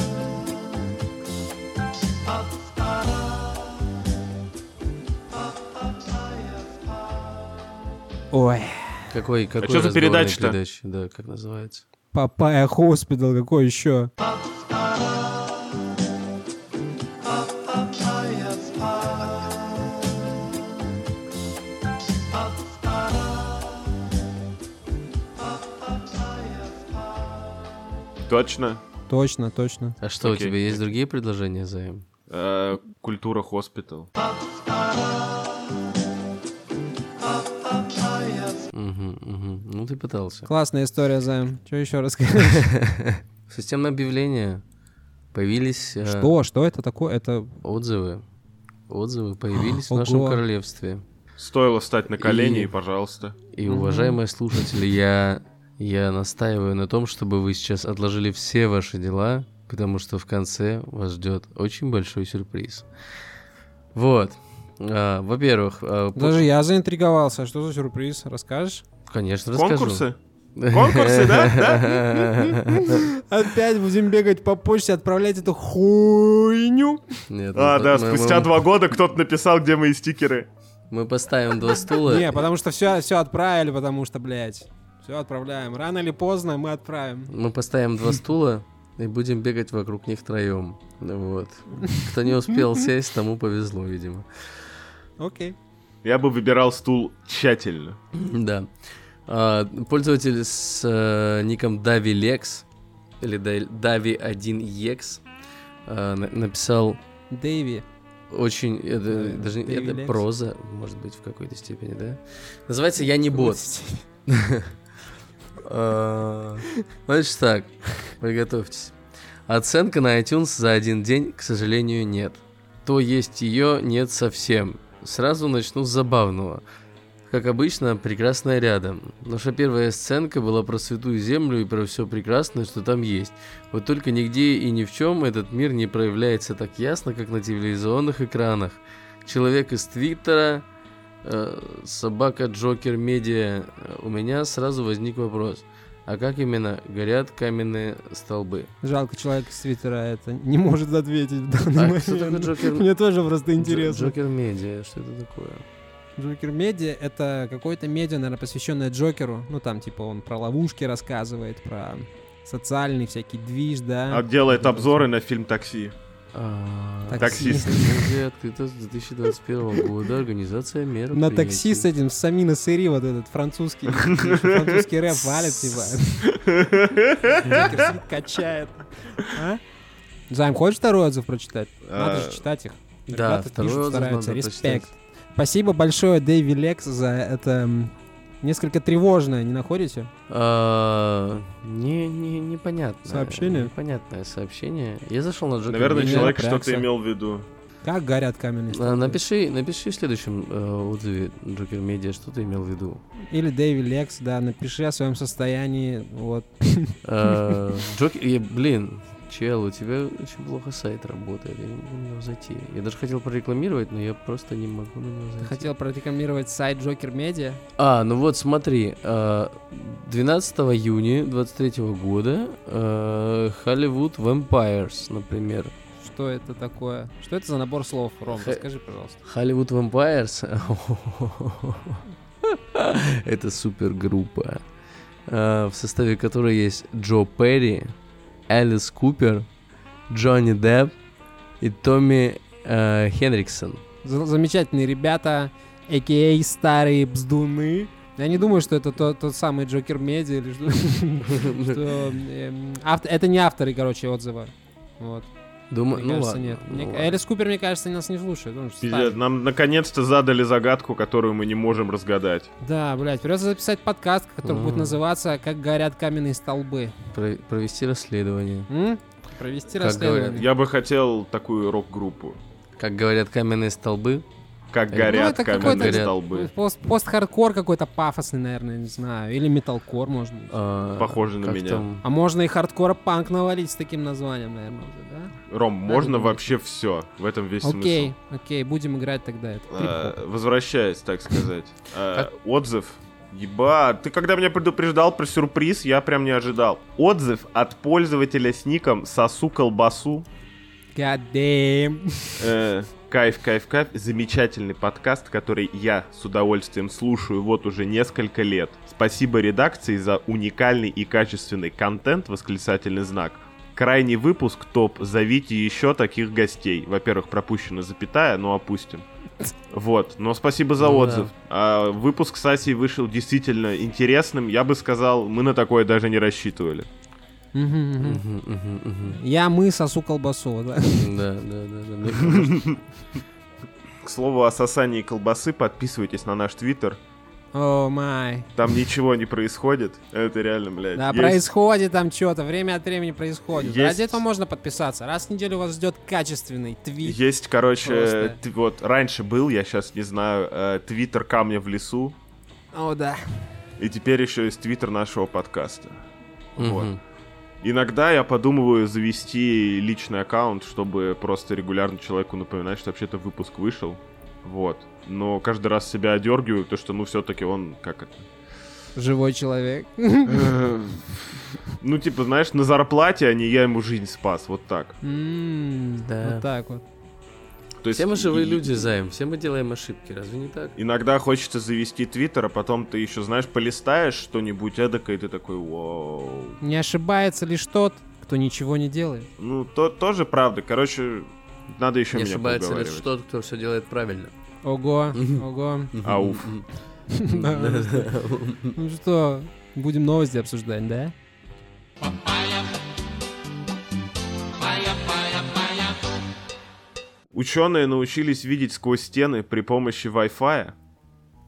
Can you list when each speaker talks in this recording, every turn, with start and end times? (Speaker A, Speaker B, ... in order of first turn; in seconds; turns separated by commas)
Speaker A: 8.3-9.1, Speaker B: 9.1-11.8, Speaker C: 9.6-10.6, Speaker A: 12.1-14.1, Speaker C: 28.3-28.8, Speaker A: 29.1-30.0, Speaker B: 30.0-32.0, Speaker C: 30.2-30.8, Speaker C: 32.3-34.1, Speaker B: 38.6-40.5, Speaker A: 40.5-42.7, Speaker B: 42.6-42.9, Speaker B: 43.5-44.6, Speaker B: 45.3-46.3, Speaker A: 46.0-47.5, Speaker B: 47.6-48.2, Speaker B: 48.9-51.0, Speaker A: 49.6-50.4, Speaker C: 51.4-53.4, Speaker B: 52.2-52.7, Speaker B: 53.5-62.9, Speaker A: 53.7-54.2, Speaker B: 63.9-66.5, Speaker A: 66.1-68.8, Speaker B: 69.1-70.0, Speaker C: 69.5-70.2, Speaker B: 70.5-73.0, Speaker C: 70.7-72.0, Speaker A: 72.2-77.0, Speaker B: 77.3-78.6, Speaker C: 77.5-80.5, Speaker B: 80.9-82.4, Speaker A: 81.9-87.3, Speaker B: 87.3-94.3, Speaker A: 91.8-92.1, Speaker A: 95.2-95.5, Speaker C: 96.0-98.0, Speaker B: 98.1-98.7, Speaker B: 99.3-102.6, Speaker B: 103.2-105.2, Speaker B: 105.8-107.0, Speaker A: 107.3-107.8, Speaker B: 108.3-113.6, Speaker A: 109.1-110.2, Speaker A: 113.3-114.0, Speaker B: 114.3-114.7, Speaker B: 115.6-119.0, Speaker B: 119.5-126.6, Speaker B: 127.3-140.7, Speaker B: 141.2-148.7, Speaker A: 148.8-154.1, Speaker B: 151.8-152.9, Speaker B: 153.6-155.6, Speaker A: 156.2-165.0, Speaker C: 164.1-165.9, Speaker B: 166.3-171.9, Speaker A: 167.1-168.1, Speaker C: 167.1-168.0, Speaker A: 171.1-176.3, Speaker C: 173.9-174.8, Speaker B: 175.4-175.7, Speaker C: 176.2-177.9, Speaker A: 177.3-179.6, Speaker A: 180.3-190.1, Speaker C: 181.8-182.4, Speaker B: 183.1-184.9, Speaker B: 190.3-196.3, Speaker A: 193.1-193.7, Speaker C: 195.7-197.5, Speaker A: 195.9-196.9, Speaker A: 197.8-199.2, Speaker B: 198.7-203.0, Speaker A: 203.3-207.8, Speaker B: 207.0-215.7, Speaker A: 215.4-217.6, Speaker B: 217.8-225.7, Speaker A: 226.0-229.2, Speaker B: 228.3-228.6, Speaker B: 229.2-234.6, Speaker B: 235.3-237.9, Speaker B: 238.5-239.5, Speaker B: 240.1-240.9, Speaker B: 241.6-243.8, Speaker A: 244.0-255.3, Speaker B: 251.2-251.8, Speaker B: 255.7-257.2, Speaker A: 255.9-259.1, Speaker C: 258.8-262.5, Speaker A: 262.6-266.9, Speaker B: 264.4-265.0, Speaker B: 267.1-268.7, Speaker A: 268.7-270.4, Speaker B: 269.8-270.4, Speaker C: 270.4-272.4, Speaker B: 272.8-274.2, Speaker C: 274.7-276.5, Speaker B: 274.9-276.1, Speaker A: 275.0-280.5, Speaker B: 280.5-282.0, Speaker C: 281.0-281.8, Speaker A: 282.0-285.3, Speaker C: 285.5-288.1, Speaker A: 285.9-286.5, Speaker A: 287.6-290.1, Speaker C: 289.7-300.2, Speaker A: 300.9-302.5, Speaker C: 302.4-319.0, Speaker C: 319.7-326.9, Speaker B: 320.8-321.3, Speaker A: 327.5-328.2, Speaker B: 328.0-329.2, Speaker A: 329.1-331.1, Speaker B: 330.9-332.7, Speaker C: 332.2-332.8, Speaker C: 334.0-337.0, Speaker A: 337.5-338.5, Speaker C: 338.6-341.4, Speaker A: 340.9-347.2, Speaker C: 343.5-344.2, Speaker C: 347.0-352.1, Speaker A: 347.8-348.4, Speaker A: 352.7-353.5, Speaker C: 353.8-356.0, Speaker C: 356.6-356.9, Speaker B: 356.6-357.0, Speaker C: 357.6-368.3, Speaker A: 368.9-370.5, Speaker C: 370.2-374.9, Speaker A: 375.0-376.8, Speaker B: 376.1-376.4, Speaker C: 377.8-378.9, Speaker B: 377.9-380.8, Speaker C: 380.8-386.6, Speaker A: 386.6-389.3, Speaker C: 389.4-393.1, Speaker B: 392.1-394.3, Speaker A: 394.6-395.9, Speaker B: 395.1-395.4, Speaker B: 395.9-396.6, Speaker C: 396.0-396.6, Speaker A: 397.1-398.1, Speaker B: 397.3-398.8, Speaker A: 398.7-401.1, Speaker C: 407.3-410.7